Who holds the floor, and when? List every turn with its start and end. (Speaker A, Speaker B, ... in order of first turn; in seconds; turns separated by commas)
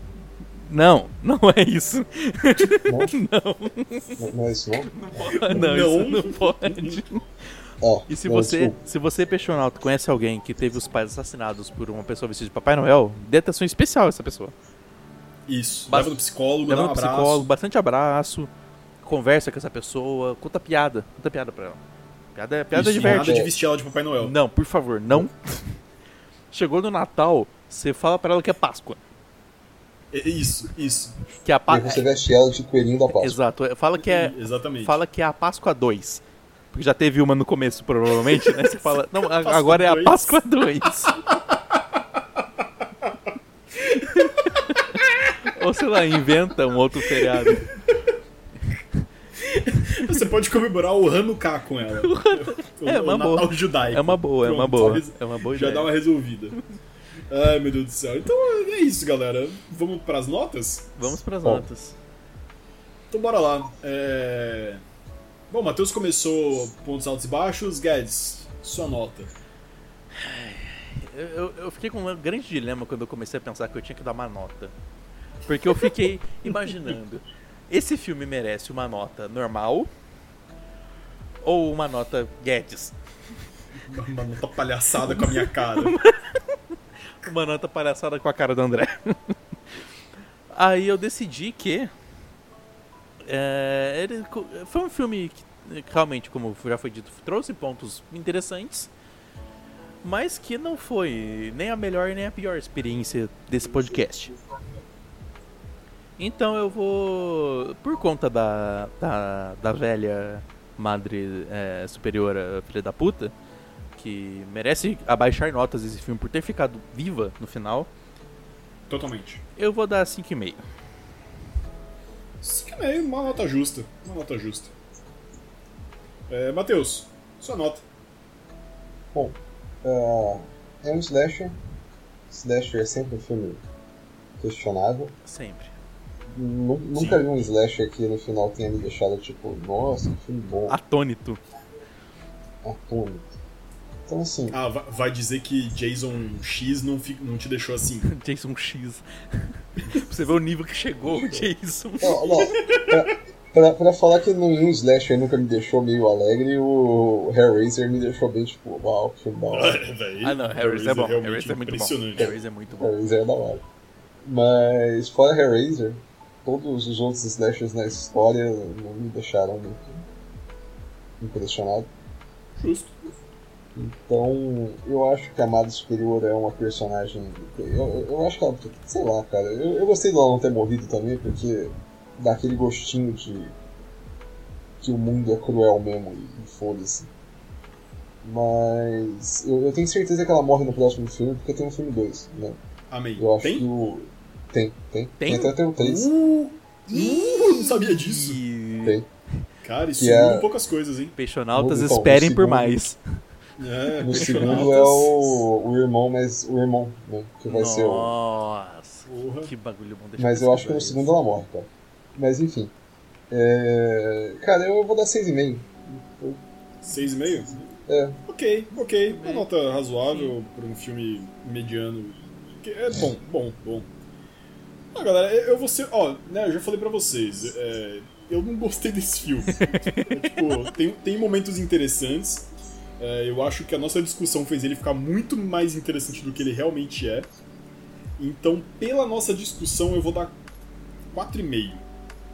Speaker A: 0.7-4.2, Speaker B: 2.8-3.1, Speaker B: 4.2-5.4, Speaker A: 4.9-7.2, Speaker C: 5.3-7.0, Speaker B: 7.8-8.8, Speaker A: 8.1-14.5, Speaker C: 15.5-17.5, Speaker A: 15.9-18.5, Speaker A: 19.0-21.8, Speaker A: 22.3-23.4, Speaker C: 22.7-24.3, Speaker B: 23.0-23.5, Speaker A: 24.2-25.8, Speaker A: 26.5-29.0, Speaker C: 30.1-31.2, Speaker A: 31.4-32.0, Speaker B: 31.7-33.4, Speaker A: 33.1-41.2, Speaker C: 34.0-35.0, Speaker C: 38.3-40.4, Speaker C: 43.8-44.1, Speaker A: 44.2-47.7, Speaker C: 47.3-48.0, Speaker C: 49.4-56.6, Speaker A: 52.0-55.9, Speaker C: 57.3-60.9, Speaker A: 61.0-62.0, Speaker C: 63.1-64.8, Speaker C: 65.5-69.3, Speaker A: 70.1-74.7, Speaker A: 75.5-79.9, Speaker A: 81.4-83.0, Speaker C: 83.9-85.9, Speaker A: 85.0-86.6, Speaker A: 87.2-89.3, Speaker A: 90.5-91.9, Speaker A: 93.2-98.9, Speaker A: 100.0-104.3, Speaker A: 106.2-113.3, Speaker A: 114.0-117.9, Speaker C: 118.9-119.4, Speaker A: 119.6-120.6, Speaker C: 122.4-124.7, Speaker C: 126.3-127.8, Speaker B: 129.1-131.6, Speaker B: 132.3-133.6, Speaker B: 134.4-135.1, Speaker A: 135.2-135.7, Speaker B: 136.3-140.8, Speaker C: 136.9-137.3, Speaker A: 140.7-141.4, Speaker B: 142.6-143.3, Speaker B: 144.1-144.6, Speaker C: 144.5-148.1, Speaker A: 148.1-152.5, Speaker B: 151.1-151.5, Speaker B: 152.0-159.8, Speaker C: 152.7-153.0, Speaker C: 159.5-162.3, Speaker A: 160.2-162.9, Speaker B: 162.2-163.6, Speaker B: 164.2-170.1, Speaker B: 171.2-171.9, Speaker C: 172.6-172.9, Speaker B: 173.7-183.6, Speaker B: 184.8-187.1, Speaker B: 188.2-192.6, Speaker C: 192.9-193.6, Speaker B: 193.2-196.1, Speaker A: 195.2-195.5, Speaker C: 195.8-198.4, Speaker A: 196.9-199.0, Speaker B: 198.8-199.1, Speaker C: 199.6-201.1, Speaker B: 200.0-200.5, Speaker A: 201.2-203.0, Speaker B: 201.5-202.8, Speaker C: 203.6-205.3, Speaker B: 204.0-208.1, Speaker A: 204.1-204.8, Speaker A: 207.5-211.1, Speaker C: 209.1-209.5, Speaker B: 210.2-212.7, Speaker B: 213.3-216.4, Speaker C: 216.8-217.7, Speaker B: 217.8-218.2, Speaker C: 218.3-223.9, Speaker A: 219.1-219.5, Speaker A: 220.1-220.3, Speaker C: 224.9-237.3, Speaker A: 229.6-230.1, Speaker C: 238.2-240.3, Speaker C: 241.1-241.8